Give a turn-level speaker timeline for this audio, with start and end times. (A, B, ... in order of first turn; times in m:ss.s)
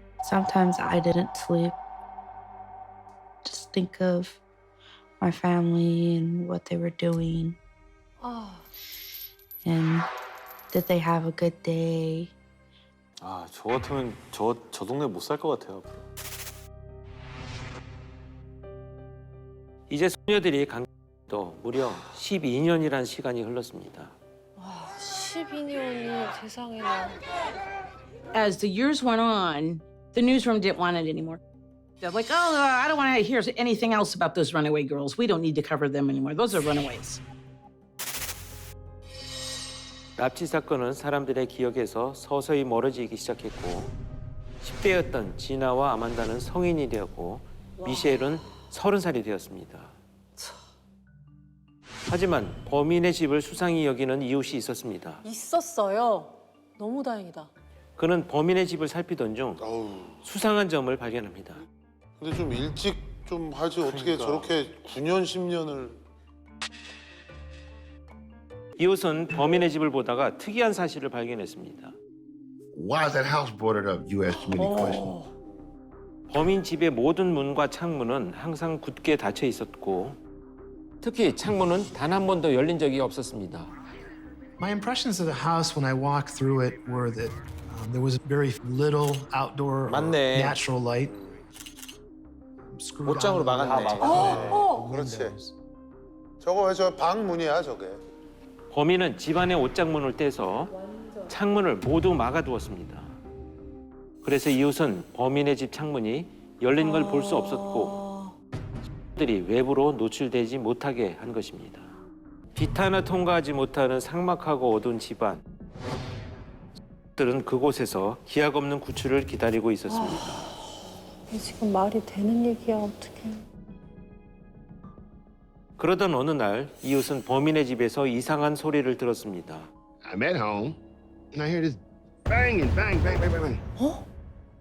0:00.2-0:01.8 A
0:03.4-0:04.4 A
0:05.2-0:07.6 A
0:08.2-0:08.7 B
0:09.6-0:10.1 A
0:10.7-0:12.3 A
0:13.2-0:16.0 C
0:19.9-0:24.1 D
0:24.6-0:27.2 B
0:28.3-0:31.4 E
0:32.0-0:37.2 E
0:40.2-0:43.9 D
0:44.6-0:50.0 D
0:47.8-0:48.4 B
0:52.1-0:55.2 D
0:55.2-0:57.5 B
0:58.0-0:59.6 D
0:59.6-1:00.2 F
1:00.2-1:01.6 D
1:02.2-1:06.0 F
1:08.8-1:12.0 D
1:12.7-1:15.2 G
1:14.4-1:15.3 B
1:16.3-1:20.2 D
1:21.0-1:23.7 D
1:24.6-1:31.1 H
1:31.0-1:31.4 F
1:32.7-1:35.5 H
1:33.7-1:35.4 F
1:34.0-1:34.8 B
1:36.4-1:38.0 F
1:38.7-1:40.8 D
1:40.8-1:41.3 B
1:41.3-1:43.2 D
1:44.2-1:48.0 D
1:46.8-1:48.3 B
1:49.2-1:51.9 D
1:52.6-1:55.4 D
1:57.2-2:00.4 D
1:59.9-2:00.5 B
2:01.3-2:03.4 B
2:05.8-2:09.7 D
2:10.0-2:10.8 G
2:11.3-2:13.6 G